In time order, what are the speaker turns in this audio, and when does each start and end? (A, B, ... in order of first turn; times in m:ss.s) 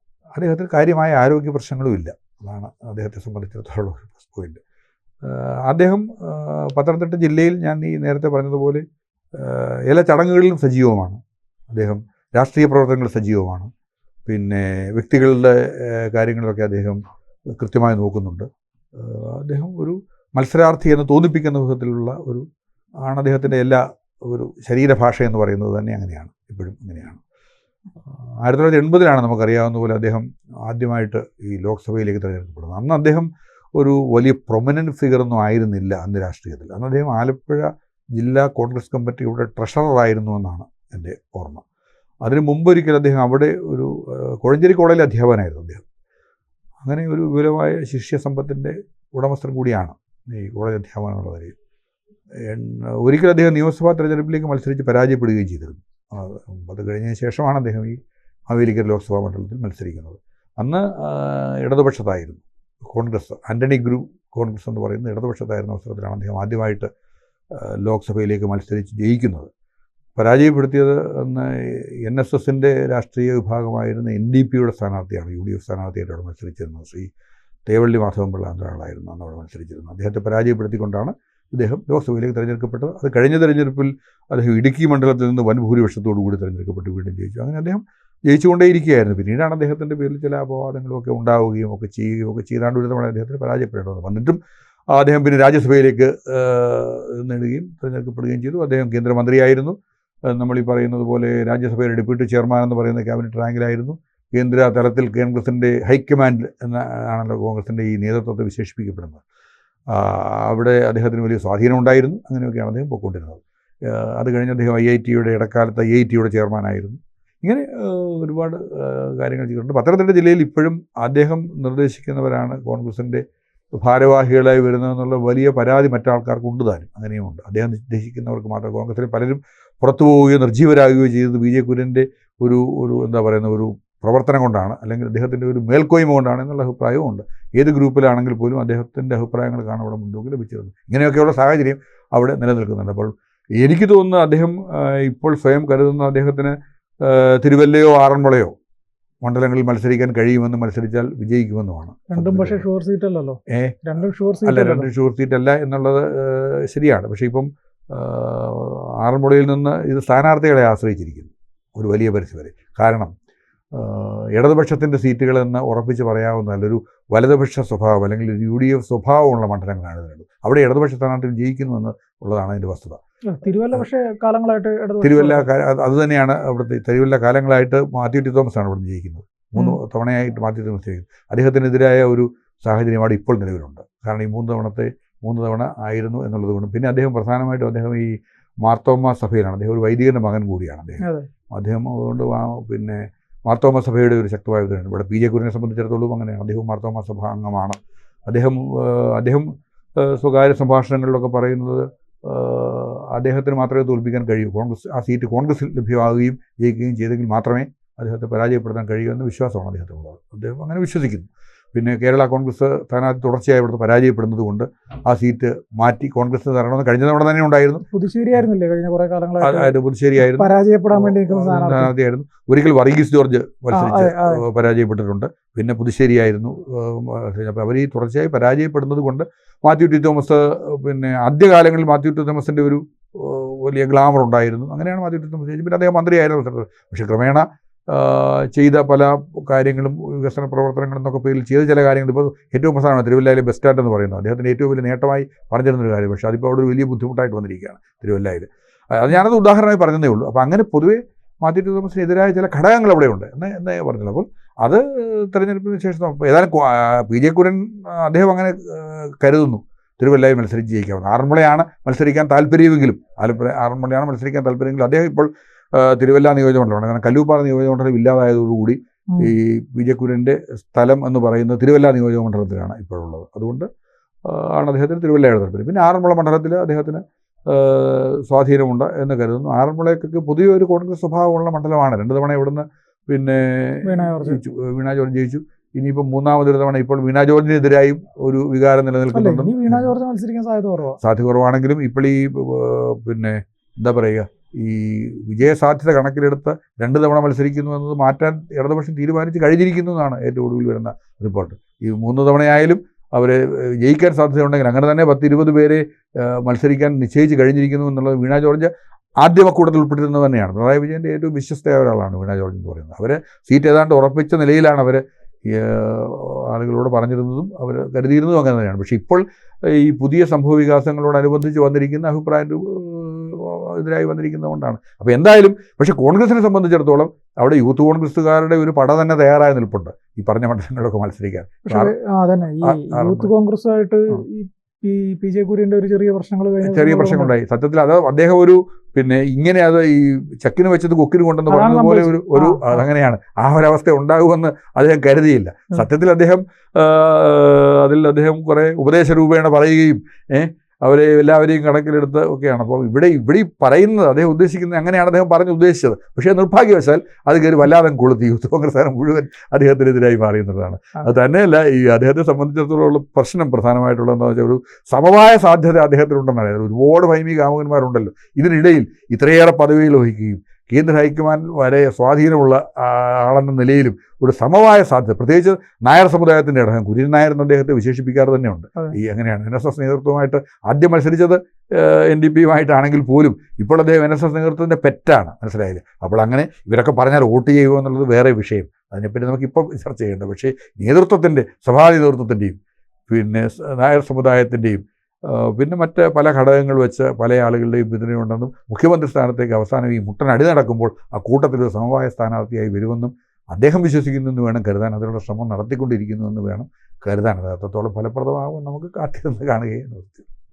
0:00.4-0:04.6 A
0:05.2-0:08.8 A
0:09.4-0:11.2 A
0:11.7-0:13.7 A
0:14.2-0:17.0 A
0:17.5-0:22.4 A
0:23.0-0:27.2 A
0:28.0-0:41.6 A
0:42.2-0:45.8 A
0:46.8-0:51.5 A
0:52.4-0:58.0 A
0:58.5-1:06.9 A
1:07.5-1:09.5 A
1:10.2-1:17.1 A
1:17.6-1:34.4 A
1:34.9-1:39.7 A
1:40.3-1:49.2 A
1:49.9-2:03.2 A
2:03.8-2:28.5 A
2:29.2-2:32.6 A
2:32.1-2:34.9 B
2:33.5-2:33.8 A
2:34.4-2:43.1 A
2:43.7-2:53.0 A
2:53.3-2:55.5 B
2:55.0-3:08.1 A
3:08.6-3:37.8 A
3:11.0-3:11.3 B
3:37.9-3:41.9 B
3:39.4-4:33.7 A
3:43.7-3:44.4 B
4:34.2-4:49.9 A
4:43.8-4:44.4 B
4:49.1-4:51.0 B
4:51.0-5:31.9 A
5:31.7-5:37.3 B
5:32.6-5:33.3 A
5:36.6-6:32.6 A
5:41.5-5:42.8 B
6:33.1-6:50.2 A